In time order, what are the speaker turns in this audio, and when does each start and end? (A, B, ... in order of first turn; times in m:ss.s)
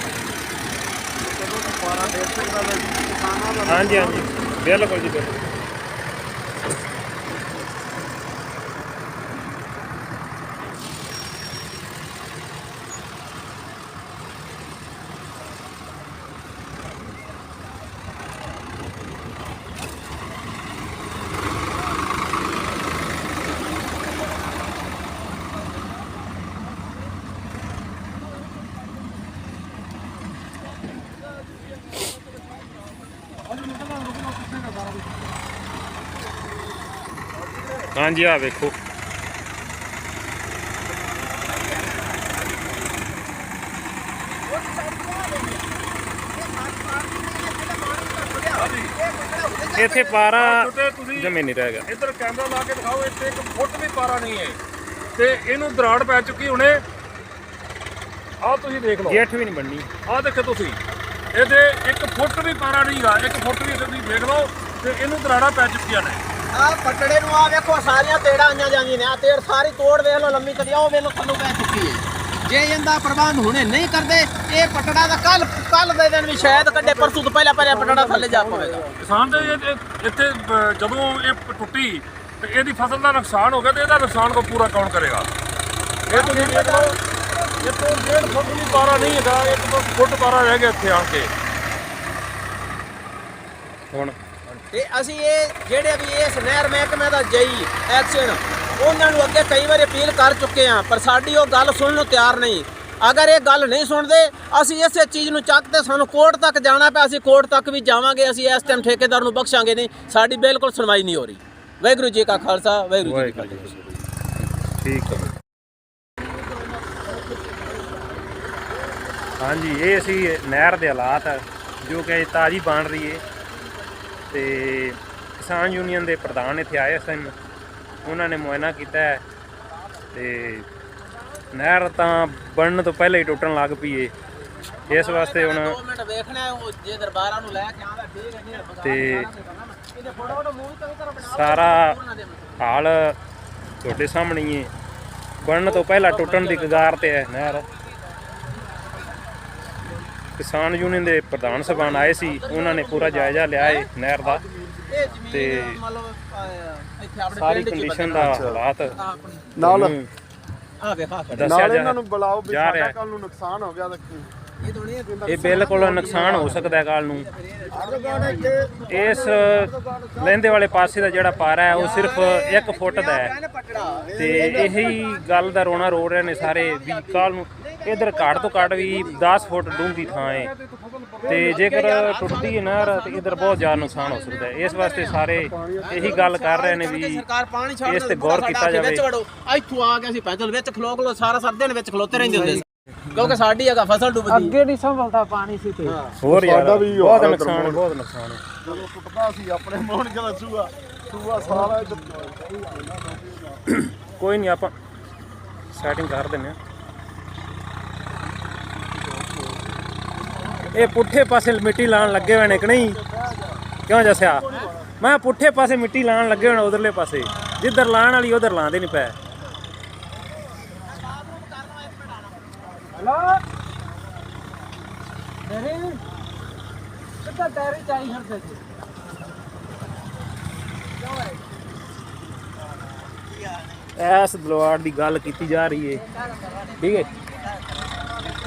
0:01.2-0:04.2 A
0:03.7-0:05.4 B
0:33.6-0:35.0 C
0:37.9-0:38.7 B
0:41.4-0:42.1 D
0:44.3-0:50.3 D
0:48.6-0:48.9 C
0:49.8-0:51.9 B
0:50.4-0:51.3 C
0:51.9-0:54.6 C
0:55.2-0:56.8 C
0:58.4-0:59.2 C
0:59.1-0:59.9 B
1:00.0-1:00.8 C
1:01.3-1:06.2 C
1:06.5-1:18.9 D
1:16.4-1:19.0 A
1:19.0-1:25.3 C
1:26.1-1:27.0 C
1:26.1-1:27.0 D
1:27.6-1:31.3 C
1:34.6-1:53.9 D
1:53.0-1:55.3 B
1:59.4-2:03.2 B
2:04.3-2:07.4 B
2:08.0-2:09.2 B
2:10.1-2:10.7 B
2:11.5-2:14.1 B
2:14.9-2:22.7 D
2:14.9-2:15.8 B
2:18.8-2:19.3 B
2:21.2-2:22.0 B
2:22.6-2:23.2 B
2:23.8-2:24.7 B
2:25.4-2:27.7 B
2:25.6-2:27.0 D
2:30.4-2:34.4 B
2:31.6-2:33.9 D
2:34.2-2:35.0 A
2:34.9-2:38.4 D
2:35.3-2:35.8 B
2:37.3-2:39.0 B
2:38.1-2:38.6 A
2:39.0-2:39.6 D
2:39.6-2:40.0 A
2:39.6-2:40.1 B
2:40.8-2:41.6 D
2:41.3-2:43.0 B
2:41.5-2:44.3 A
2:44.6-2:49.3 D
2:45.1-2:46.7 A
2:45.3-2:47.3 B
2:47.7-2:51.4 A
2:48.9-2:53.3 B
2:51.7-3:00.1 D
2:54.2-2:54.9 A
2:54.2-3:00.5 B
3:00.0-3:01.5 A
3:01.3-3:07.2 B
3:01.3-3:05.2 D
3:05.4-3:06.2 A
3:05.8-3:14.6 D
3:07.9-3:09.0 B
3:14.3-3:16.0 E
3:15.8-3:16.2 D
3:16.2-3:18.4 B
3:16.3-3:17.8 A
3:18.6-3:23.6 A
3:23.7-3:24.7 B
3:25.7-3:26.6 B
3:30.7-3:33.0 B
3:32.2-3:33.6 A
3:33.9-3:34.5 B
3:35.0-3:39.2 B
3:40.8-3:43.0 D
3:43.0-3:43.4 E
3:45.5-3:46.0 E
3:47.2-3:48.6 E
3:54.0-3:56.0 B
3:56.2-3:58.1 D
3:56.8-3:57.1 B